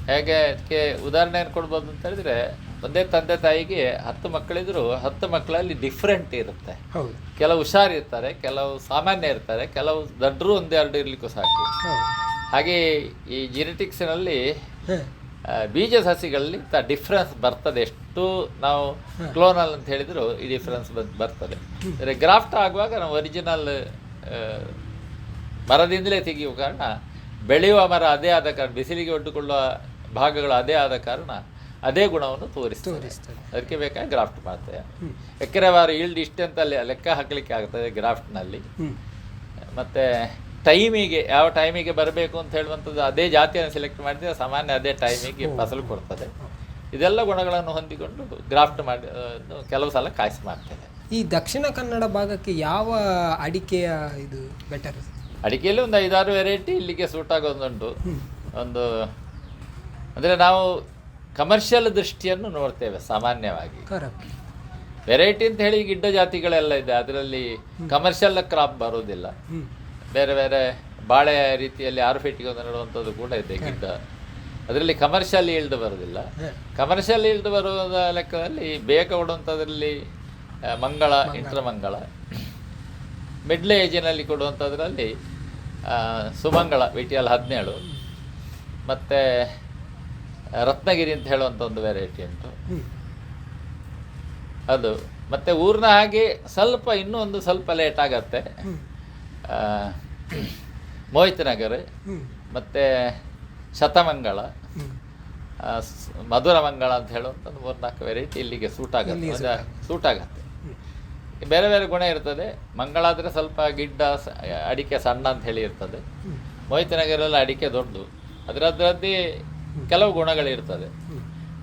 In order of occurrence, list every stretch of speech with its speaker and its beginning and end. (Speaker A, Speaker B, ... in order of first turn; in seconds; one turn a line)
Speaker A: 0.1-6.8
Speaker B: 6.9-7.2
Speaker A: 7.4-11.7
Speaker B: 11.8-12.1
Speaker A: 12.5-14.4
Speaker A: 15.5-24.8
Speaker A: 25.7-26.9
Speaker A: 27.5-29.6
Speaker A: 30.1-34.9
Speaker B: 32.8-33.5
Speaker A: 35.4-38.6
Speaker A: 39.7-46.3
Speaker B: 45.3-46.5
Speaker A: 46.9-50.9
Speaker B: 51.1-55.1
Speaker A: 55.4-57.9
Speaker A: 58.6-59.0
Speaker A: 60.1-60.7
Speaker A: 61.4-63.9
Speaker B: 63.9-64.2
Speaker A: 65.1-69.3
Speaker A: 70.1-74.0
Speaker A: 74.7-79.9
Speaker A: 80.7-82.5
Speaker B: 81.2-81.6
Speaker A: 83.5-85.1
Speaker A: 85.8-87.8
Speaker A: 88.9-89.5
Speaker A: 90.6-92.5
Speaker A: 94.7-98.5
Speaker A: 99.5-100.5
Speaker A: 101.1-101.8
Speaker A: 102.5-103.1
Speaker A: 103.8-104.5
Speaker A: 105.6-110.4
Speaker B: 109.0-109.8
Speaker A: 111.5-116.0
Speaker A: 116.7-119.2
Speaker A: 119.9-120.9